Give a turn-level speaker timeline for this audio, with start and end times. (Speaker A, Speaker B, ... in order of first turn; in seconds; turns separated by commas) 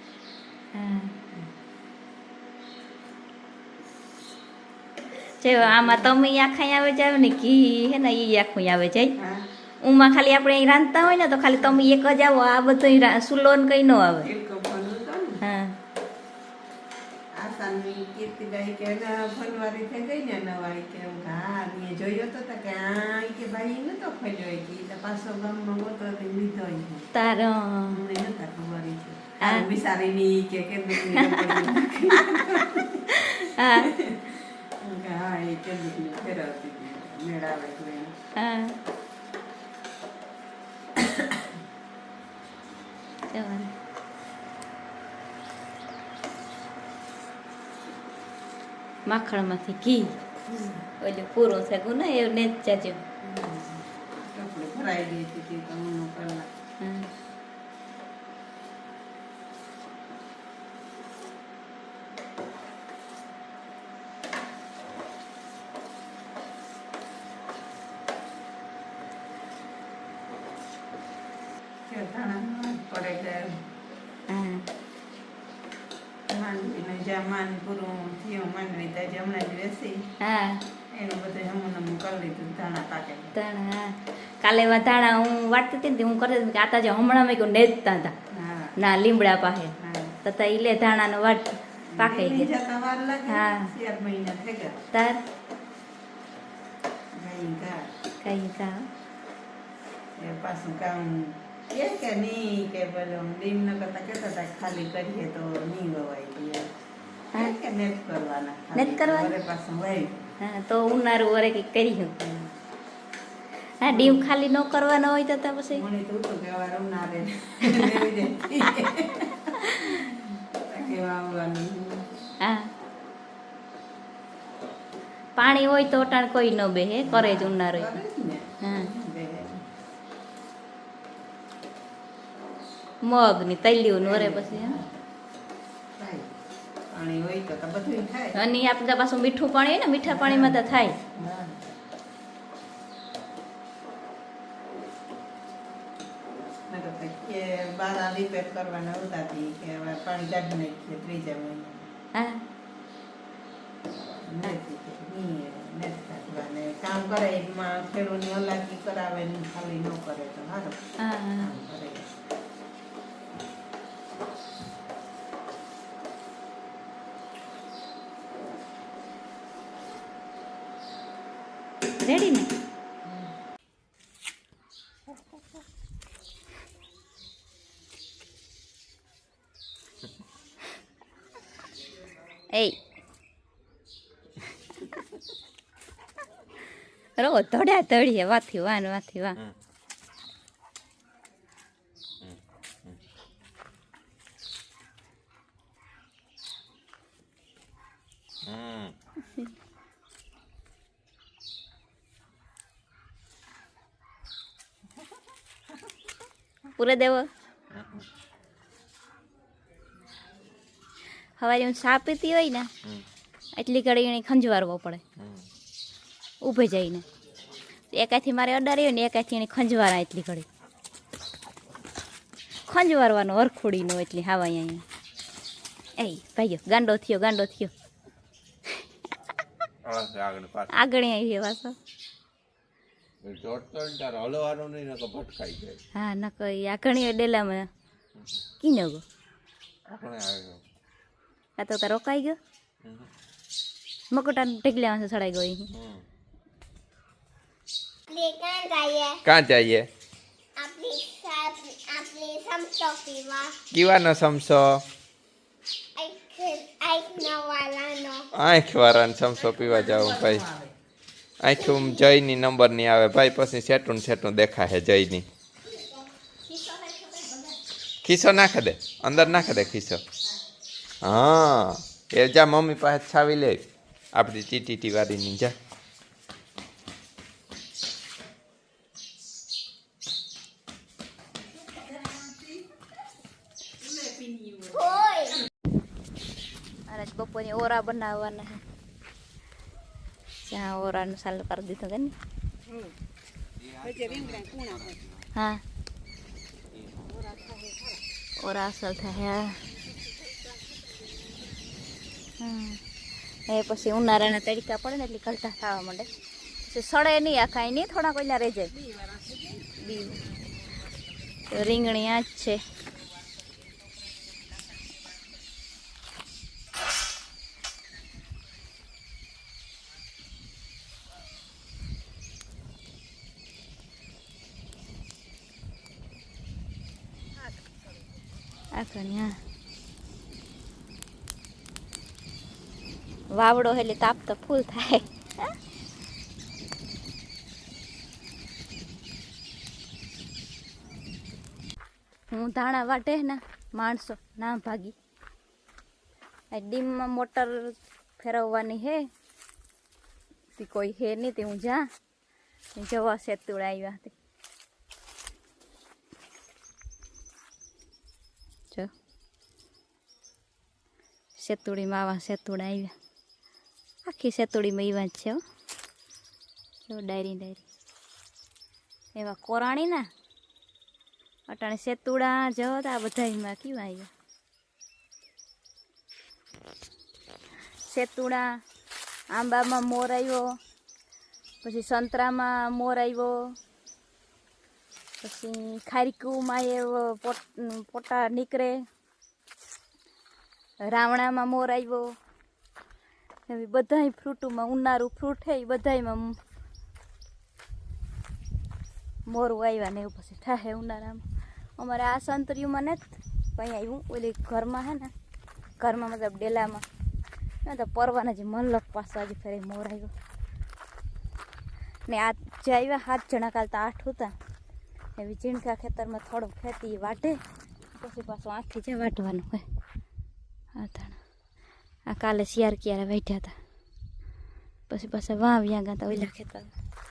Speaker A: 0.7-1.1, Speaker A: 5.4-9.1, Speaker B: 5.6-6.2, Speaker B: 9.2-9.4, Speaker A: 9.8-14.3, Speaker B: 11.6-11.8, Speaker B: 14.2-15.4, Speaker A: 15.4-15.7, Speaker B: 17.4-27.1, Speaker A: 27.1-28.0, Speaker B: 27.9-33.2, Speaker A: 29.4-29.6, Speaker A: 31.1-31.8, Speaker A: 33.1-33.9, Speaker B: 33.8-38.1, Speaker A: 38.4-38.7, Speaker B: 41.0-41.4, Speaker A: 43.3-43.7, Speaker A: 49.1-50.1, Speaker B: 50.5-50.8, Speaker A: 51.0-53.0, Speaker B: 53.2-56.5, Speaker A: 56.8-57.1, Speaker B: 71.9-73.6, Speaker A: 74.3-74.7, Speaker B: 76.3-80.1, Speaker A: 80.2-80.6, Speaker B: 80.9-83.3, Speaker A: 83.3-88.1, Speaker B: 88.3-88.7, Speaker A: 88.8-92.5, Speaker B: 89.8-90.1, Speaker B: 91.9-94.7, Speaker A: 93.3-93.7, Speaker A: 94.9-95.2, Speaker B: 97.1-97.9, Speaker A: 98.2-98.8, Speaker B: 100.2-106.7, Speaker B: 107.3-110.2, Speaker A: 108.8-109.3, Speaker A: 110.4-112.1, Speaker B: 112.2-112.5, Speaker A: 113.8-115.8, Speaker B: 113.9-114.3, Speaker B: 115.7-120.0, Speaker A: 119.7-120.2, Speaker B: 120.7-122.1, Speaker A: 122.4-122.7, Speaker A: 125.3-128.0, Speaker B: 127.0-129.6, Speaker A: 128.6-128.9, Speaker A: 133.0-134.8, Speaker B: 134.0-134.9, Speaker B: 136.0-136.3, Speaker B: 136.9-138.3, Speaker A: 138.3-140.9, Speaker B: 140.1-141.7, Speaker B: 146.7-151.9, Speaker A: 152.1-152.4, Speaker B: 154.2-160.8, Speaker A: 161.0-161.5, Speaker B: 161.4-162.1, Speaker A: 172.0-172.5, Speaker A: 182.5-182.8, Speaker A: 187.2-189.4, Speaker C: 192.2-192.9, Speaker C: 198.4-198.9, Speaker A: 206.8-207.3, Speaker C: 207.7-208.0, Speaker A: 211.4-212.7, Speaker A: 213.6-215.0, Speaker C: 215.2-215.4, Speaker A: 216.4-217.0, Speaker A: 217.9-220.5, Speaker A: 222.7-224.8, Speaker A: 226.0-227.7, Speaker C: 229.8-230.7, Speaker A: 230.7-231.7, Speaker C: 233.2-235.8, Speaker A: 235.9-237.7, Speaker A: 238.6-239.0, Speaker C: 239.9-240.6, Speaker A: 241.6-242.4, Speaker A: 244.1-245.7, Speaker C: 245.7-246.0, Speaker D: 248.1-249.2, Speaker C: 249.2-249.9, Speaker D: 250.6-253.6, Speaker C: 253.7-254.8, Speaker D: 255.9-258.3, Speaker C: 258.3-260.5, Speaker C: 261.4-265.3, Speaker D: 261.6-261.9, Speaker D: 266.5-267.4, Speaker C: 268.0-270.0, Speaker C: 271.0-275.5, Speaker B: 282.0-282.2, Speaker B: 284.0-284.8, Speaker D: 284.7-285.4, Speaker A: 286.9-288.6, Speaker A: 290.4-292.1, Speaker C: 293.8-295.0, Speaker B: 293.8-294.9, Speaker A: 295.3-295.6, Speaker B: 297.4-297.8, Speaker A: 298.4-299.6, Speaker A: 302.4-302.8, Speaker A: 303.5-306.1, Speaker A: 306.6-308.8, Speaker A: 309.6-310.2, Speaker A: 311.5-312.6, Speaker A: 328.7-329.4, Speaker A: 333.3-335.5, Speaker A: 342.3-344.9, Speaker A: 346.5-349.0, Speaker A: 350.6-351.8, Speaker A: 352.8-354.1, Speaker A: 361.4-362.9, Speaker A: 364.0-365.4, Speaker A: 366.8-367.6, Speaker A: 369.1-370.1, Speaker A: 371.5-374.1, Speaker A: 377.9-378.5, Speaker A: 379.3-380.5, Speaker A: 381.6-383.5, Speaker A: 385.2-388.8, Speaker A: 390.9-392.1, Speaker A: 393.5-396.3, Speaker A: 399.3-401.2, Speaker A: 401.8-405.1, Speaker A: 405.8-406.8, Speaker A: 407.6-410.1, Speaker A: 412.1-414.3, Speaker A: 415.2-417.4, Speaker A: 418.0-419.6, Speaker A: 420.8-421.2, Speaker A: 422.1-423.5, Speaker A: 424.9-426.7